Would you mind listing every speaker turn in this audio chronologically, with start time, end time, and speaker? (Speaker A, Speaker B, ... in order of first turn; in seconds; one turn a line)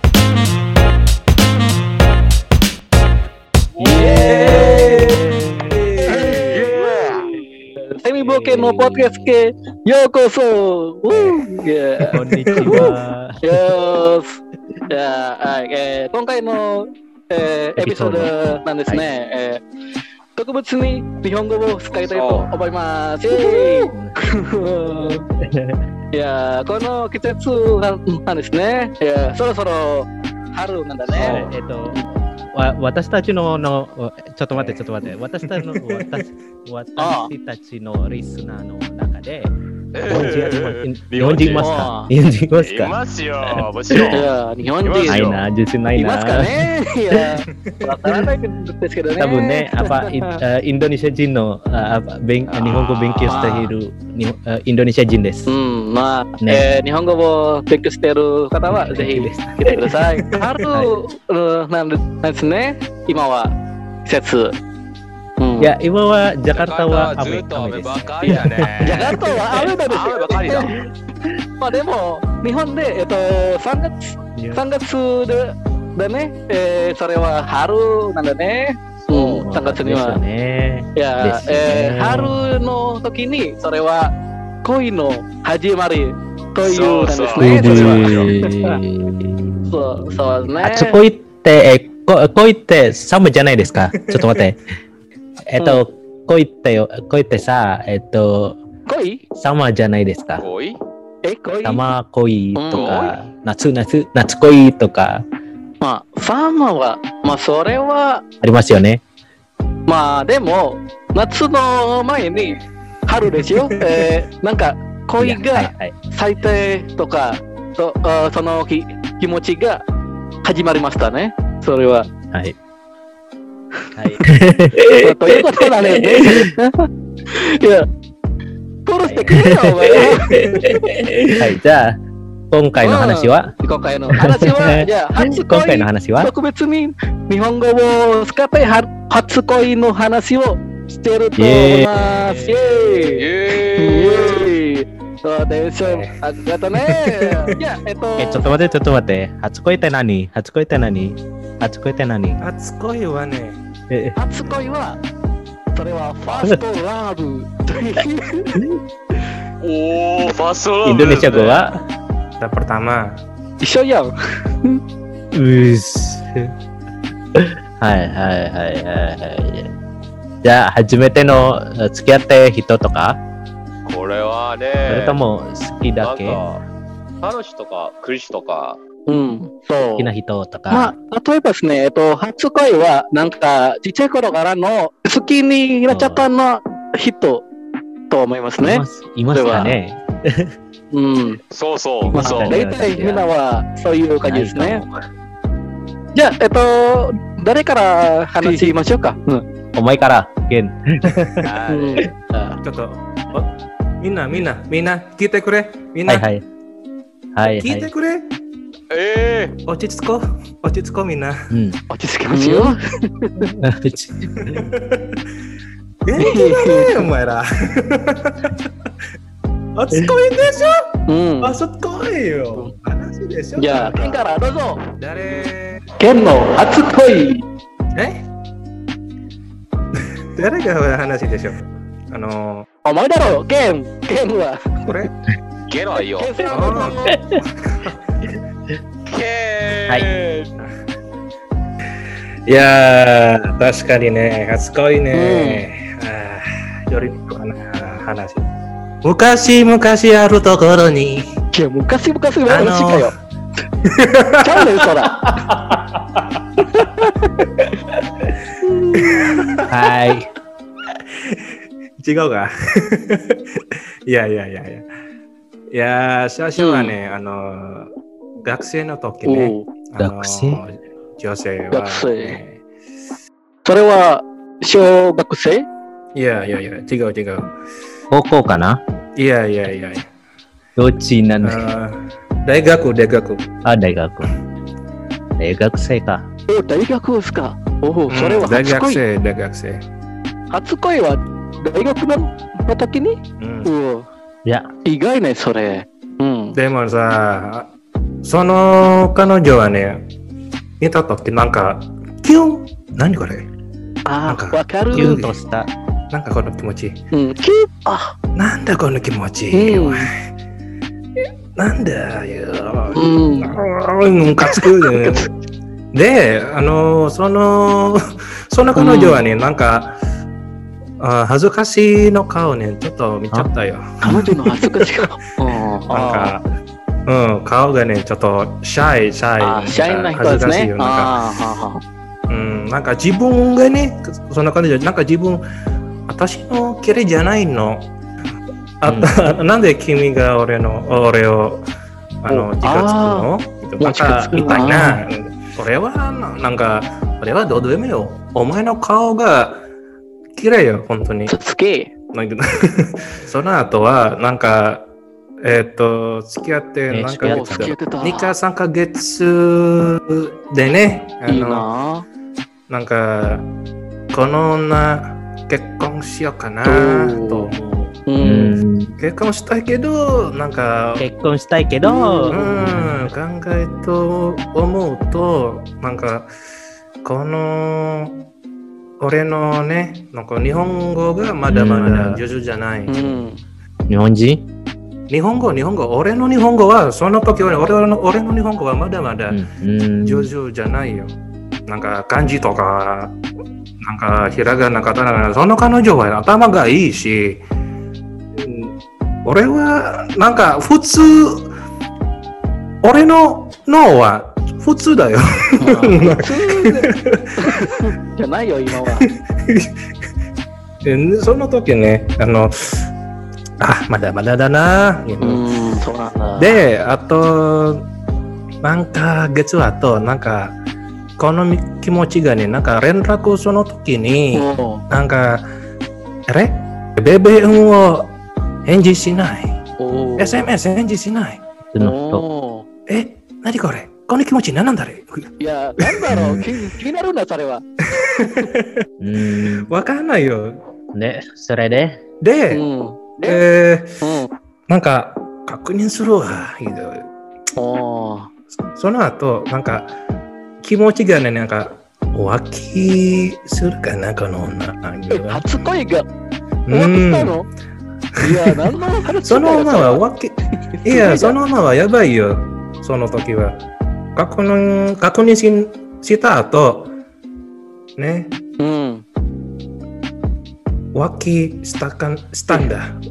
Speaker A: 3.8-5.0
Speaker B: 3.8-6.5
Speaker C: 3.8-5.2
Speaker D: 4.2-4.6
Speaker C: 6.0-6.7
Speaker A: 6.3-7.2
Speaker D: 6.4-7.3
Speaker A: 7.8-19.6
Speaker B: 8.2-9.3
Speaker C: 12.0-12.9
Speaker B: 12.1-13.6
Speaker B: 17.8-19.1
Speaker A: 20.4-25.2
Speaker D: 22.0-22.5
Speaker B: 23.3-24.1
Speaker B: 25.4-25.8
Speaker A: 26.1-32.0
Speaker D: 31.1-31.5
Speaker B: 31.2-32.0
Speaker B: 32.5-39.5
Speaker C: 34.5-34.8
Speaker C: 35.4-36.2
Speaker A: 37.0-37.3
Speaker D: 39.9-41.7
Speaker B: 40.1-42.9
Speaker A: 41.5-42.1
Speaker D: 42.6-44.3
Speaker B: 43.5-44.2
Speaker A: 44.1-45.2
Speaker D: 44.8-45.4
Speaker B: 45.0-46.7
Speaker A: 46.0-50.4
Speaker C: 47.5-48.2
Speaker B: 49.2-55.5
Speaker D: 52.5-53.6
Speaker A: 53.2-53.7
Speaker A: 55.5-63.5
Speaker B: 56.4-56.6
Speaker B: 58.7-60.0
Speaker C: 60.3-60.7
Speaker B: 60.7-61.0
Speaker A: 64.0-64.5
Speaker A: 65.4-65.7
Speaker B: 65.6-69.3
Speaker D: 66.5-70.7
Speaker A: 68.8-70.8
Speaker A: 71.6-80.2
Speaker B: 74.3-74.6
Speaker D: 79.1-79.4
Speaker B: 79.4-82.4
Speaker A: 81.0-84.1
Speaker A: 84.6-88.8
Speaker D: 86.6-88.3
Speaker B: 87.4-94.6
Speaker A: 89.7-91.0
Speaker C: 93.9-94.4
Speaker B: 95.5-98.6
Speaker A: 98.9-99.2
Speaker B: 99.4-100.5
Speaker D: 100.4-100.8
Speaker A: 101.2-101.8
Speaker B: 101.6-105.2
Speaker A: 102.5-103.0
Speaker D: 102.7-103.2
Speaker A: 105.8-108.2
Speaker B: 108.4-109.0
Speaker A: 109.9-119.8
Speaker C: 113.7-114.1
Speaker B: 115.2-115.9
Speaker A: 120.4-122.1
Speaker B: 124.0-126.5
Speaker A: 124.9-127.8
Speaker A: 128.8-131.2
Speaker B: 129.1-132.0
Speaker C: 130.3-130.6
Speaker B: 132.5-133.5
Speaker A: 132.8-148.5
Speaker B: 134.1-136.3
Speaker B: 141.4-143.2
Speaker D: 143.2-144.5
Speaker C: 145.8-146.1
Speaker C: 146.8-147.6
Speaker B: 148.2-152.4
Speaker C: 152.4-153.6
Speaker B: 153.9-154.2
Speaker A: 154.2-155.0
Speaker A: 155.7-158.6
Speaker D: 159.6-161.6
Speaker B: 160.8-161.7
Speaker C: 162.4-163.2
Speaker A: 163.6-164.1
Speaker B: 165.3-166.5
Speaker B: 167.3-169.7
Speaker B: 170.4-173.2
Speaker D: 173.8-175.2
Speaker B: 174.8-176.4
Speaker D: 176.0-176.6
Speaker D: 177.2-178.8
Speaker A: 179.1-180.1
Speaker B: 180.0-180.9
Speaker A: 180.7-187.4
Speaker B: 185.9-186.3
Speaker A: 188.1-189.8
Speaker B: 188.6-190.5
Speaker A: 190.9-191.4
Speaker D: 191.5-192.5
Speaker B: 192.0-193.2
Speaker A: 192.1-194.8
Speaker B: 194.2-194.9
Speaker A: 196.1-199.4
Speaker B: 199.7-201.5
Speaker D: 201.4-202.0
Speaker A: 201.7-202.6
Speaker C: 202.6-206.3
Speaker B: 206.1-206.4
Speaker B: 207.3-207.9
Speaker C: 207.4-208.3
Speaker D: 208.9-209.6
Speaker C: 209.7-211.5
Speaker B: 211.5-211.8
Speaker A: 211.9-213.5
Speaker B: 212.3-212.7
Speaker B: 213.4-214.7
Speaker C: 214.4-215.2
Speaker C: 216.0-218.7
Speaker A: 216.2-217.1
Speaker C: 219.7-220.8
Speaker A: 221.1-221.6
Speaker C: 221.4-224.2
Speaker A: 223.6-224.8
Speaker C: 224.9-225.9
Speaker A: 226.0-227.4
Speaker C: 227.9-228.2
Speaker C: 230.0-232.7
Speaker A: 232.8-235.0
Speaker C: 234.8-235.1
Speaker D: 235.7-236.3
Speaker A: 236.0-237.2
Speaker C: 236.5-238.0
Speaker B: 237.1-237.4
Speaker D: 239.1-240.5
Speaker C: 242.5-248.4
Speaker A: 245.1-245.6
Speaker C: 249.0-251.3
Speaker A: 251.5-253.1
Speaker C: 252.4-253.1
Speaker C: 253.8-256.2
Speaker A: 254.4-255.3
Speaker A: 256.6-257.3
Speaker A: 258.6-259.6
Speaker C: 258.9-259.7
Speaker B: 259.7-260.3
Speaker C: 261.1-264.9
Speaker C: 265.7-267.9
Speaker A: 266.6-266.9
Speaker C: 268.4-272.6
Speaker A: 269.2-269.7
Speaker B: 270.0-270.6
Speaker A: 271.7-272.4
Speaker A: 273.6-275.6
Speaker C: 276.1-277.5
Speaker B: 278.1-278.8
Speaker C: 279.2-280.0
Speaker B: 280.8-281.6
Speaker C: 281.4-283.5
Speaker B: 283.6-284.3
Speaker B: 285.4-286.2
Speaker A: 286.5-289.0
Speaker C: 288.1-289.8
Speaker A: 290.5-294.1
Speaker C: 293.4-293.7
Speaker A: 294.8-296.6
Speaker C: 296.5-297.7
Speaker C: 298.2-300.1
Speaker C: 300.8-303.5
Speaker A: 304.1-305.2
Speaker C: 304.3-305.3
Speaker B: 304.9-305.7
Speaker C: 306.1-307.0
Speaker A: 307.1-308.1
Speaker C: 308.4-310.1
Speaker A: 309.5-310.1
Speaker C: 311.6-315.3
Speaker A: 312.9-313.6
Speaker A: 314.4-315.3
Speaker C: 315.9-320.0
Speaker A: 318.8-319.2
Speaker C: 321.0-324.2
Speaker B: 324.0-324.3
Speaker A: 324.1-326.4
Speaker C: 325.9-326.5
Speaker C: 327.1-331.1
Speaker A: 329.4-331.8
Speaker C: 332.3-335.4
Speaker C: 336.1-337.9
Speaker C: 338.8-341.6
Speaker B: 338.8-339.1
Speaker C: 342.2-349.7
Speaker A: 342.3-343.3
Speaker A: 343.8-345.0
Speaker C: 350.4-351.3
Speaker A: 351.3-351.9
Speaker C: 352.1-354.9
Speaker C: 355.4-361.7
Speaker B: 356.9-357.7
Speaker A: 357.2-358.3
Speaker A: 361.3-362.1
Speaker C: 362.7-363.5
Speaker C: 364.1-368.0
Speaker A: 366.6-367.5
Speaker A: 368.1-368.6
Speaker B: 368.2-368.9
Speaker C: 369.0-371.1
Speaker B: 371.0-373.1
Speaker A: 371.8-372.8
Speaker C: 372.3-376.3
Speaker C: 377.0-378.2
Speaker C: 379.0-383.3
Speaker B: 381.5-382.2
Speaker A: 382.9-383.4
Speaker B: 383.9-384.4
Speaker C: 385.1-389.4
Speaker B: 389.3-390.3
Speaker C: 390.0-391.1
Speaker C: 391.6-393.2
Speaker C: 393.8-397.4
Speaker C: 398.4-401.5
Speaker C: 402.8-407.8
Speaker A: 405.6-409.1
Speaker C: 409.0-409.7
Speaker C: 410.8-412.9
Speaker C: 413.6-415.4
Speaker A: 415.2-416.6
Speaker C: 416.4-417.9
Speaker C: 418.6-420.5
Speaker C: 421.2-425.4
Speaker A: 424.3-424.8
Speaker C: 426.3-429.6
Speaker A: 429.8-430.5
Speaker C: 430.2-431.4
Speaker B: 431.7-432.2
Speaker A: 431.8-432.6
Speaker C: 432.9-436.3
Speaker A: 435.4-437.6
Speaker B: 436.1-436.5
Speaker C: 438.0-440.6
Speaker B: 439.0-439.7
Speaker B: 440.9-442.0
Speaker C: 442.2-442.6
Speaker A: 442.5-443.4
Speaker C: 443.2-444.0
Speaker A: 444.0-444.3
Speaker C: 444.7-447.1
Speaker A: 447.6-448.3
Speaker C: 448.7-449.9
Speaker C: 450.6-455.4
Speaker A: 455.1-456.1
Speaker C: 456.7-457.4
Speaker A: 456.7-457.5
Speaker C: 458.2-458.7
Speaker A: 458.2-460.0
Speaker C: 459.2-463.6
Speaker A: 460.8-461.4
Speaker C: 464.1-466.9
Speaker C: 468.0-468.4
Speaker A: 468.6-469.0
Speaker C: 470.9-473.0